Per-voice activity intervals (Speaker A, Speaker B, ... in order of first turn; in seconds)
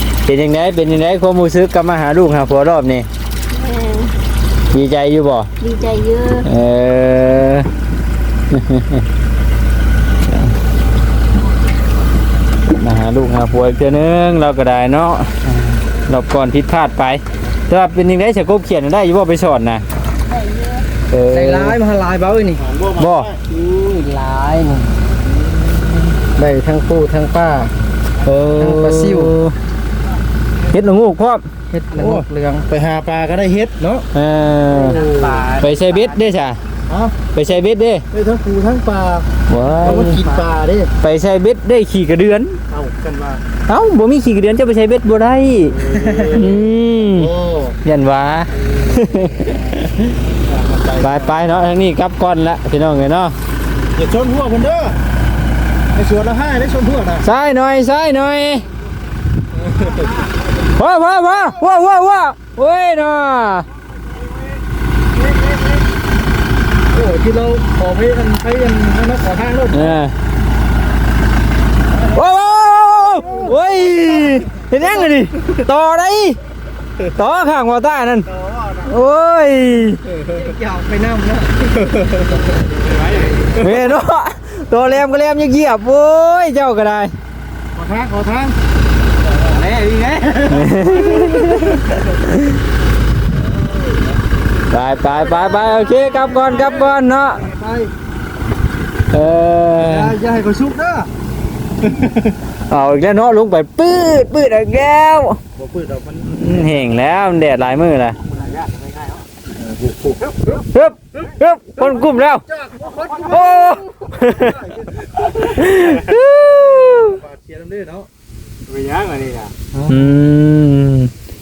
Speaker A: 0.2-3.1, 4.7-5.5, 6.5-7.7, 8.5-9.1, 10.3-10.6, 12.8-19.9, 21.1-21.8, 22.9-23.3, 28.2-29.6, 30.7-31.4, 34.1-35.0, 35.6-36.6, 37.3-38.0, 39.5-40.2, 41.0-42.6, 43.7-45.8, 46.3-47.3, 47.9-50.2, 51.0-53.4, 57.2-58.6, 60.8-63.7, 69.7-70.1, 72.1-76.4, 77.2-78.3, 78.8-80.0, 83.6-87.1, 90.5-92.6, 94.7-97.5, 99.1-100.2, 102.7-105.4, 106.2-108.2, 110.7-112.4, 113.3-114.7, 115.4-117.2, 119.9-121.1
Speaker B: 3.5-4.2, 5.6-6.5, 20.2-20.9
Speaker C: 21.3-22.7, 23.5-25.0, 26.3-27.7, 28.6-29.4, 31.7-32.7, 34.7-36.2, 45.9-46.4, 78.4-78.8, 80.3-82.5
Speaker D: 22.7-23.1, 31.9-34.1, 34.9-35.4, 36.9-37.2, 38.1-40.9, 42.7-43.4, 45.7-47.8, 48.5-49.3, 50.5-51.5, 53.9-55.0, 55.9-57.3, 59.7-60.1, 66.9-70.0, 73.2-73.5, 81.8-82.4, 83.2-83.8, 87.8-88.5, 89.6-91.8, 97.4-97.9, 99.8-101.1, 101.8-102.3, 105.6-106.9, 108.3-108.9, 109.6-110.6, 112.5-118.1, 118.7-120.2